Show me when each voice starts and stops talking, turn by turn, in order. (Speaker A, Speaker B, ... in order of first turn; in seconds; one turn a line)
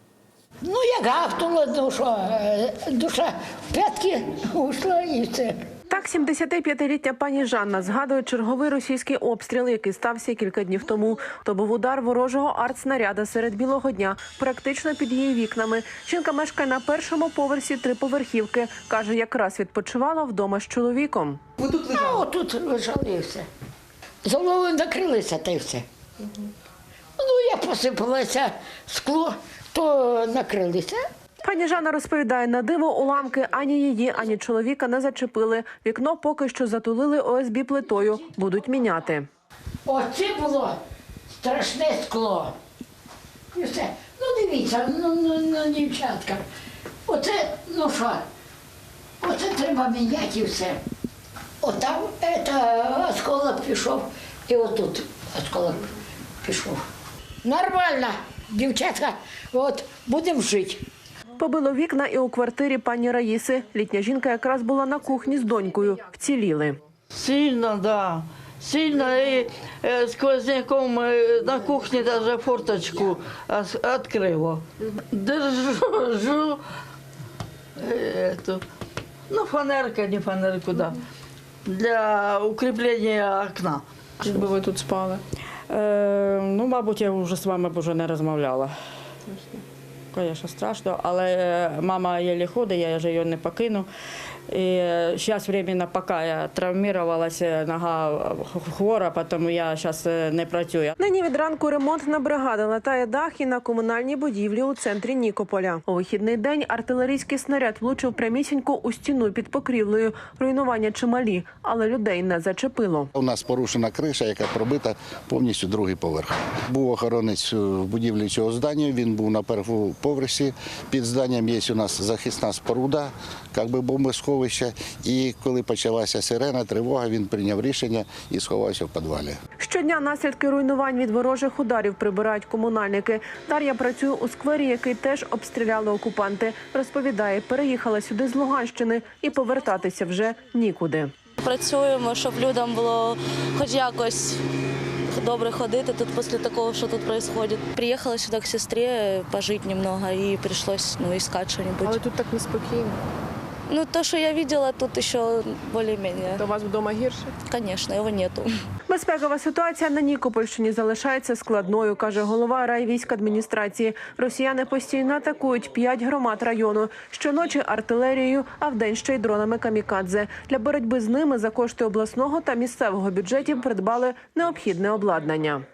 Speaker A: 0.6-5.7
Speaker B: 5.9-21.4
Speaker A: 21.6-23.5
Speaker A: 24.2-25.8
Speaker A: 27.2-31.0
Speaker B: 31.4-39.2
Speaker A: 39.9-40.8
Speaker A: 41.3-42.5
Speaker A: 43.5-46.4
Speaker A: 47.0-48.2
Speaker A: 49.2-50.8
Speaker A: 51.6-55.9
Speaker A: 56.4-56.8
Speaker A: 57.4-60.8
Speaker B: 61.4-66.8
Speaker C: 67.1-76.6
Speaker C: 77.8-78.6
Speaker C: 79.3-81.0
Speaker C: 81.6-84.4
Speaker D: 84.2-85.2
Speaker E: 85.7-88.7
Speaker D: 89.3-89.6
Speaker E: 90.1-93.9
Speaker E: 94.5-100.9
Speaker B: 101.0-113.1
Speaker F: 113.1-129.4
Speaker B: 129.6-141.1
Speaker G: 141.4-144.4
Speaker G: 145.1-152.1
Speaker D: 151.8-153.0
Speaker G: 153.7-156.5
Speaker D: 156.4-157.3
Speaker G: 157.4-158.5
Speaker B: 158.9-175.6